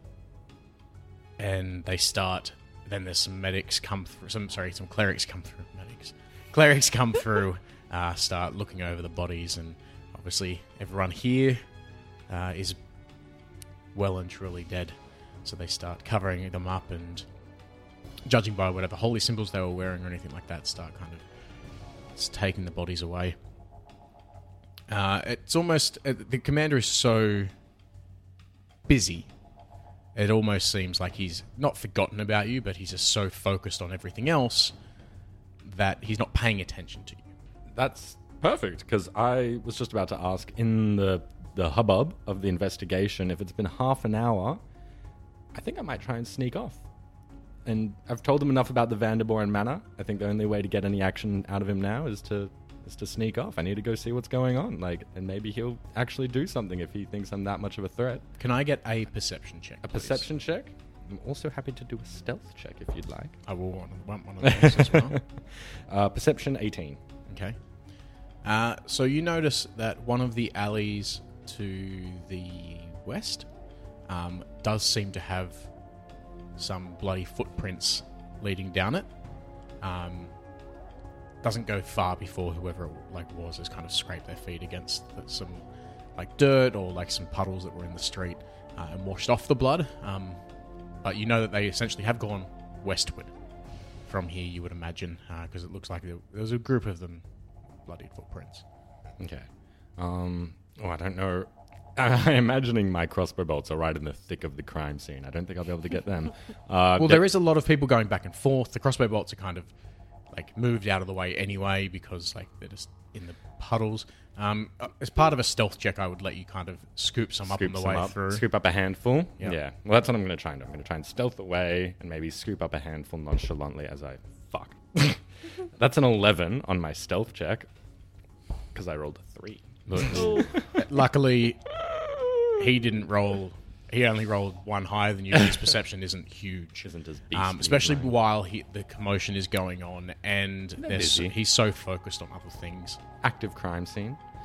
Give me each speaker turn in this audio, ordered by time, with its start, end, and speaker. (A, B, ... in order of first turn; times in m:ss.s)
0:01.4-0:11.6 A
0:12.3-0:12.8 A
0:13.9-0:17.3 A
0:18.3-0:21.2 A
0:22.2-0:23.4 A
0:24.9-0:27.5 A
0:28.9-0:29.3 A
0:30.2-0:34.7 A
0:35.6-0:37.2 A
0:37.7-0:44.6 B
0:45.5-0:46.8 B
0:47.7-0:58.2 B
0:58.4-1:00.3 A
0:59.8-1:03.4 B
1:03.5-1:05.2 A
1:04.4-1:07.0 B
1:07.3-1:07.6 A
1:08.4-1:13.5 A
1:14.1-1:15.7 A
1:16.6-1:19.1 A
1:19.8-1:20.3 A
1:21.4-1:25.6 A
1:26.2-1:30.4 A
1:31.0-1:33.3 A
1:34.0-1:37.2 A
1:37.9-1:38.6 A
1:39.2-1:39.5 B
1:40.0-1:47.3 B
1:47.0-1:49.7 A
1:50.3-1:58.4 A
1:57.5-2:05.2 B
2:05.8-2:07.7 B
2:08.7-2:10.7 B
2:09.9-2:11.7 A
2:12.5-2:23.0 A
2:16.8-2:18.2 B
2:20.8-2:21.4 B
2:23.2-2:24.2 B